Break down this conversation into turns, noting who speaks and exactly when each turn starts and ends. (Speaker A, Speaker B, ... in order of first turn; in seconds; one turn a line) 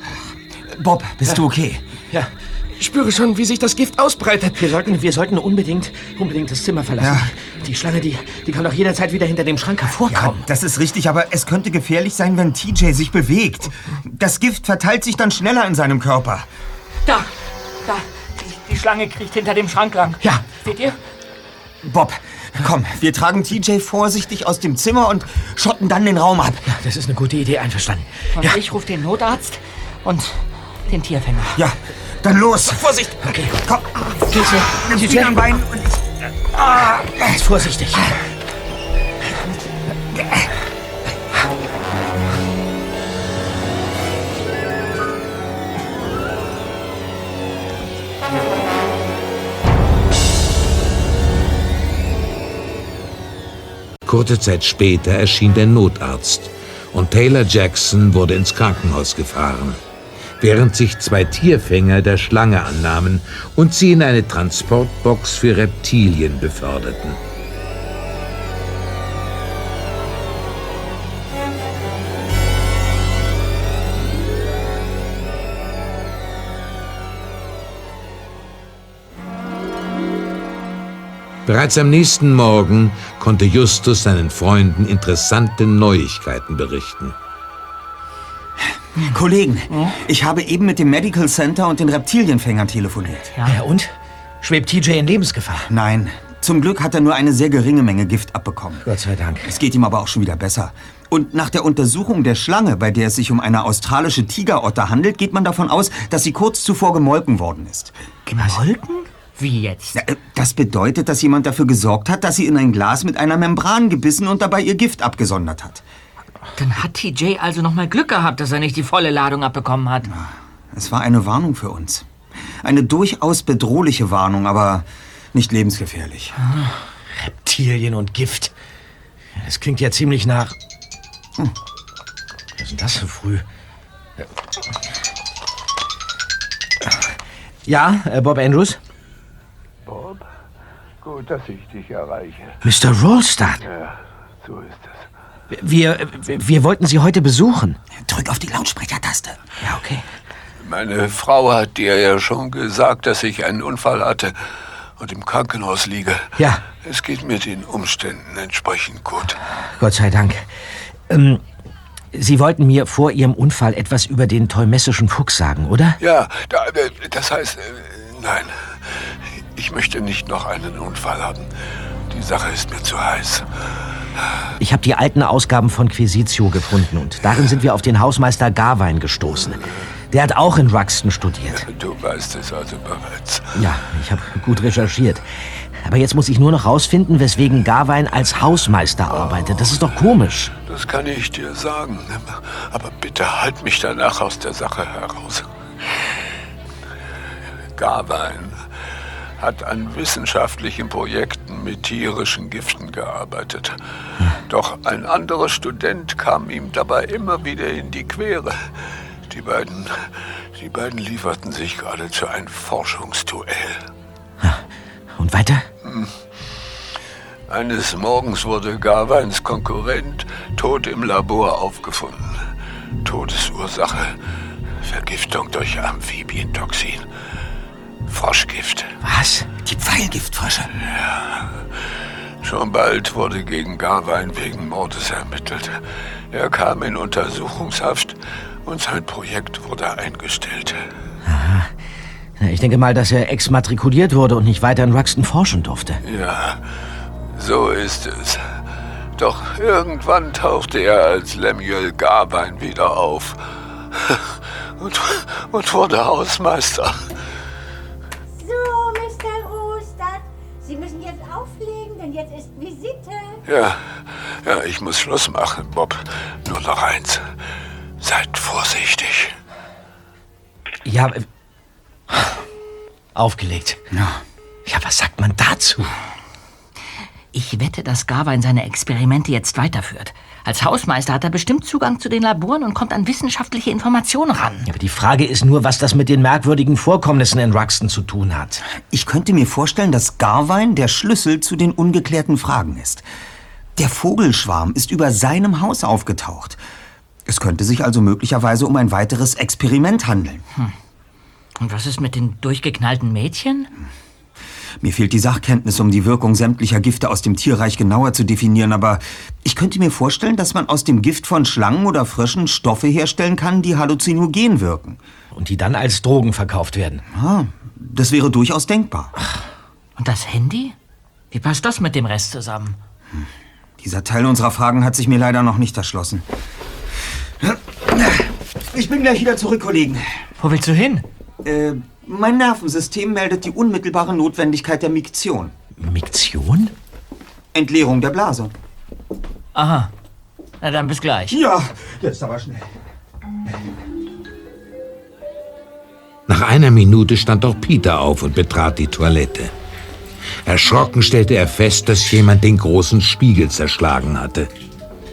Speaker A: 0.7-1.8
Speaker B: 2.8-4.7
Speaker C: 4.5-10.5
Speaker A: 7.0-7.3
Speaker A: 10.1-16.5
Speaker D: 17.1-17.3
Speaker D: 17.8-21.0
Speaker A: 21.8-26.6
Speaker C: 26.6-28.6
Speaker D: 28.3-31.6
Speaker A: 31.5-32.8
Speaker B: 32.6-33.2
Speaker C: 33.2-33.5
Speaker A: 33.6-35.8
Speaker C: 34.3-35.4
Speaker C: 36.6-38.1
Speaker E: 54.0-59.8
Speaker E: 60.4-67.2
Speaker E: 81.5-87.1
Speaker A: 89.0-93.3
Speaker C: 93.4-95.7
Speaker A: 95.7-98.8
Speaker C: 98.8-99.5
Speaker A: 99.4-107.9
Speaker D: 108.2-110.0
Speaker A: 109.9-115.8
Speaker D: 116.5-120.1
Speaker A: 120.1-122.1
Speaker A: 122.6-126.3
Speaker C: 127.1-128.5
Speaker C: 129.3-130.6
Speaker C: 132.6-133.4
Speaker C: 136.8-137.1
Speaker C: 137.7-138.8
Speaker C: 142.6-143.6
Speaker C: 145.5-147.8
Speaker A: 148.0-149.4
Speaker C: 149.6-150.1
Speaker F: 150.6-154.4
Speaker F: 155.0-159.4
Speaker C: 156.3-156.6
Speaker C: 159.7-160.5
Speaker C: 161.1-161.4
Speaker C: 162.1-166.0
Speaker F: 166.0-171.5
Speaker F: 172.1-173.5
Speaker C: 174.6-181.7
Speaker F: 181.5-183.7
Speaker C: 183.5-190.5
Speaker F: 189.1-195.5
Speaker F: 197.8-198.6
Speaker F: 199.4-213.8
Speaker C: 215.2-215.7
Speaker F: 215.8-216.1
Speaker F: 217.5-222.5
Speaker F: 223.0-224.2
Speaker F: 224.8-227.0
Speaker F: 228.1-229.0
Speaker C: 229.0-229.5
Speaker A: 229.6-230.7
Speaker F: 230.8-240.8
Speaker C: 241.2-241.7
Speaker C: 242.4-246.0
Speaker F: 246.0-246.6
Speaker F: 247.3-248.6
Speaker F: 249.2-253.4
Speaker F: 253.9-257.1
Speaker G: 258.3-263.4
Speaker F: 263.4-267.3
Speaker F: 268.0-269.3
Speaker C: 270.8-271.2
Speaker C: 273.1-273.8
Speaker A: 273.9-274.2
Speaker C: 274.6-275.9
Speaker D: 277.3-284.6
Speaker C: 284.6-288.6
Speaker A: 288.9-293.0
Speaker A: 293.8-296.6
Speaker A: 297.3-300.4
Speaker D: 301.6-303.7
Speaker A: 304.8-315.0
Speaker C: 315.3-317.0
Speaker A: 317.1-319.1
Speaker D: 320.0-320.8
Speaker D: 321.3-322.8
Speaker A: 323.8-326.2
Speaker A: 327.4-330.0
Speaker D: 330.4-331.1
Speaker A: 331.4-335.5
Speaker C: 335.8-336.7
Speaker A: 337.5-338.5
Speaker D: 339.5-339.9
Speaker D: 340.6-341.4
Speaker A: 341.3-342.7
Speaker E: 346.3-349.5
Speaker E: 350.4-354.5